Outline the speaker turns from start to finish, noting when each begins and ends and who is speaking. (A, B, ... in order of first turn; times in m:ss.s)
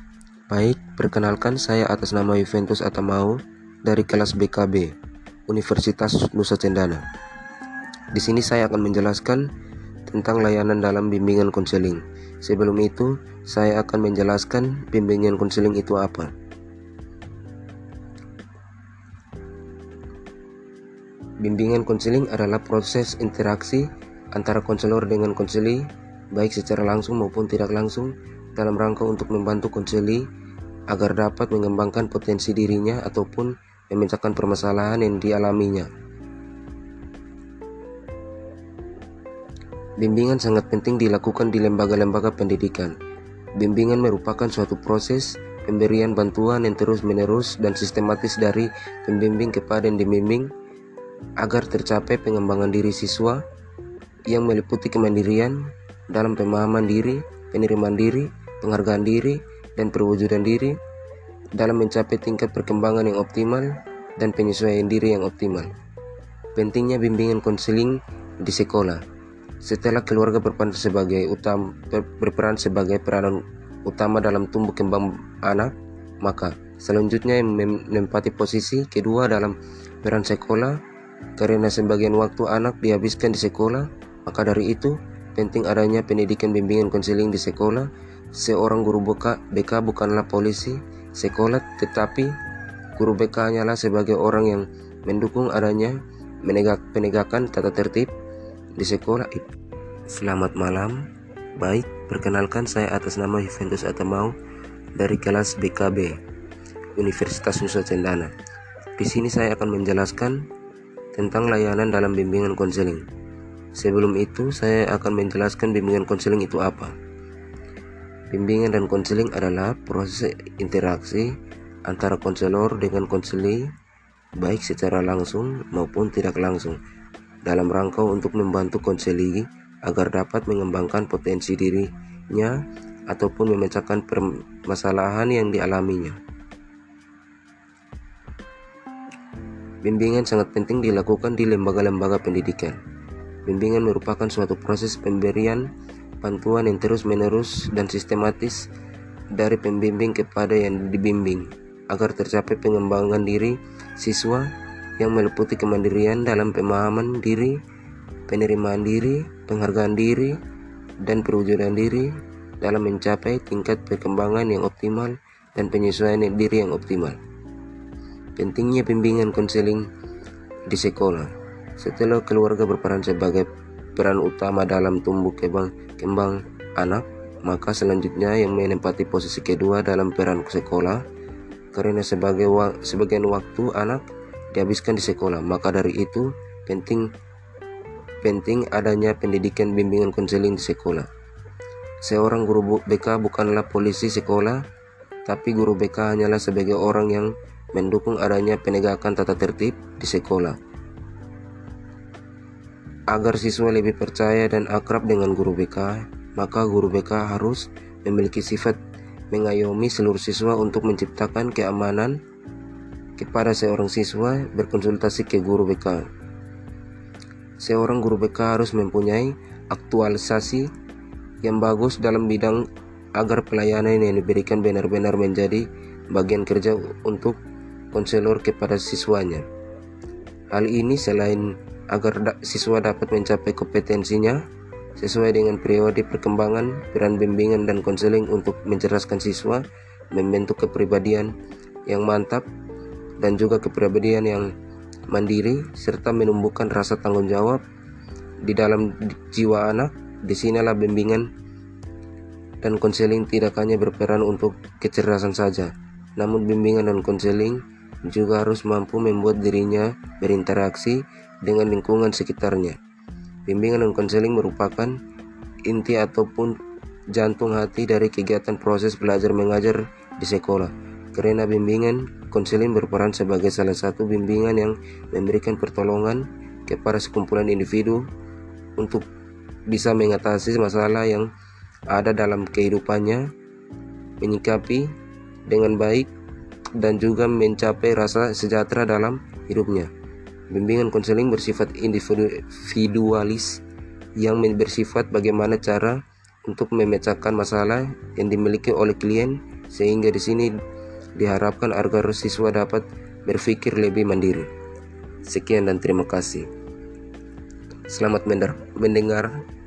0:00.5-0:04.9 A
0:05.5-0:07.0 A
0:08.1-0:09.5 A
0:10.1-0:16.3 A
0:21.4-0:30.3 A
0:30.9-0:35.9 A
0:40.0-0:43.0 A
0:43.6-0:50.5 A
0:51.4-0:53.4 A
0:54.3-1:00.8 A
1:01.5-1:05.7 A
1:06.5-1:09.0 A
1:09.6-1:20.8 A
1:21.4-1:32.3 A
1:33.0-1:38.1 A
1:38.8-1:39.5 A
1:40.1-1:44.3 A
1:45.0-1:46.2 A
1:46.9-1:48.3 A
1:49.0-1:50.5 A
1:51.1-1:53.1 A
1:53.7-1:57.0 A
1:58.3-2:03.7 A
2:04.4-2:06.8 A
2:07.4-2:16.2 A
2:19.8-2:22.8 A
2:23.4-2:25.7 A
2:26.2-2:28.7 A
2:29.3-2:37.6 A
2:38.3-2:40.4 A
2:41.0-2:47.2 A
2:48.4-2:49.9 A
2:50.7-3:01.0 A
3:01.7-3:07.1 A
3:08.2-3:11.1 A
3:12.0-3:14.6 A
3:15.2-3:20.6 A
3:23.1-3:28.8 A
3:29.3-3:32.2 A
3:33.2-3:36.1 A
3:37.6-3:40.7 A
3:41.4-3:47.4 A
3:47.9-3:49.4 A
3:50.5-3:54.4 A
3:55.0-4:01.3 A
4:01.9-4:02.4 A
4:03.2-4:04.5 A
4:05.1-4:07.6 A
4:08.4-4:11.3 A
4:12.6-4:22.8 A
4:23.4-4:25.0 A
4:25.6-4:26.6 A
4:27.1-4:38.1 A
4:38.8-4:39.0 A
4:39.7-4:41.3 A
4:41.9-4:43.3 A
4:44.2-4:44.9 A
4:45.5-4:46.1 A
4:46.7-4:49.9 A
4:50.5-4:53.6 A
4:54.2-5:00.5 A
5:01.2-5:04.5 A
5:05.2-5:06.5 A
5:07.9-5:09.4 A